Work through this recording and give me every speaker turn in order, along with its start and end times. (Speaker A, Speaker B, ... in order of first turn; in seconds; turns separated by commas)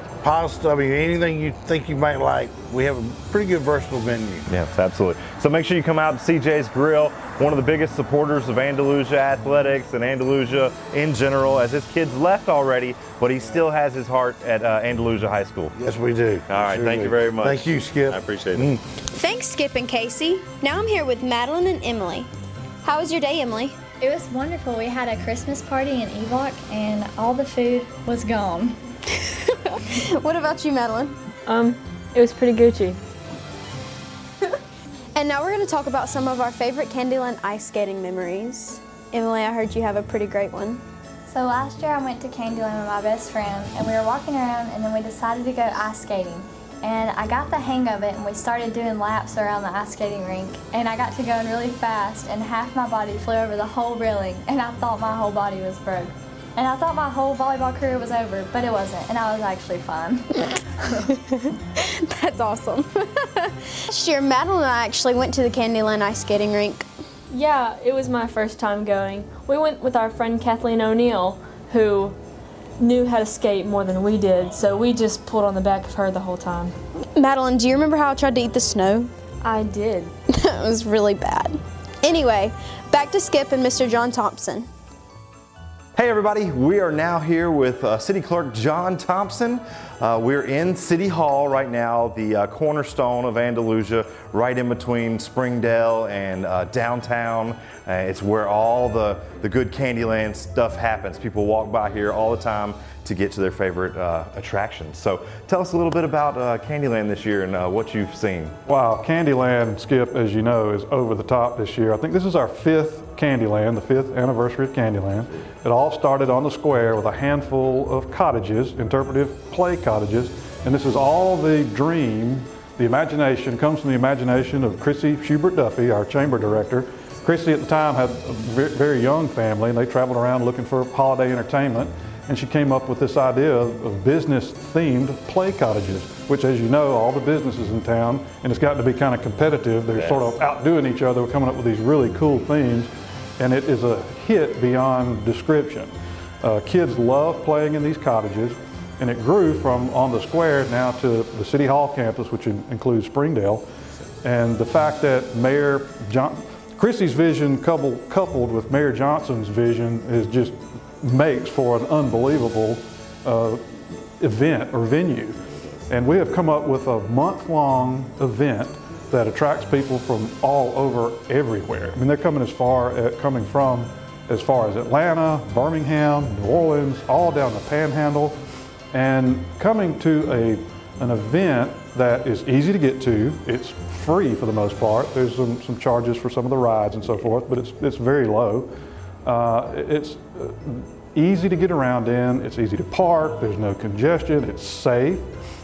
Speaker A: 0.2-4.5, Speaker B: 4.5-15.7, Speaker A: 15.8-18.8, Speaker B: 16.5-18.8, Speaker C: 19.1-22.3, Speaker C: 22.8-23.8, Speaker D: 24.0-28.8, Speaker C: 30.2-31.1, Speaker E: 31.5-33.0, Speaker C: 35.1-40.8, Speaker D: 41.3-60.3, Speaker C: 61.8-66.8, Speaker E: 67.3-72.2, Speaker E: 72.8-76.7, Speaker C: 77.2-79.1, Speaker E: 79.4-80.1, Speaker C: 80.3-84.7, Speaker B: 85.9-108.5, Speaker F: 108.7-153.6, Speaker B: 139.9-140.3, Speaker F: 154.2-178.4, Speaker F: 178.9-188.7, Speaker F: 189.2-195.3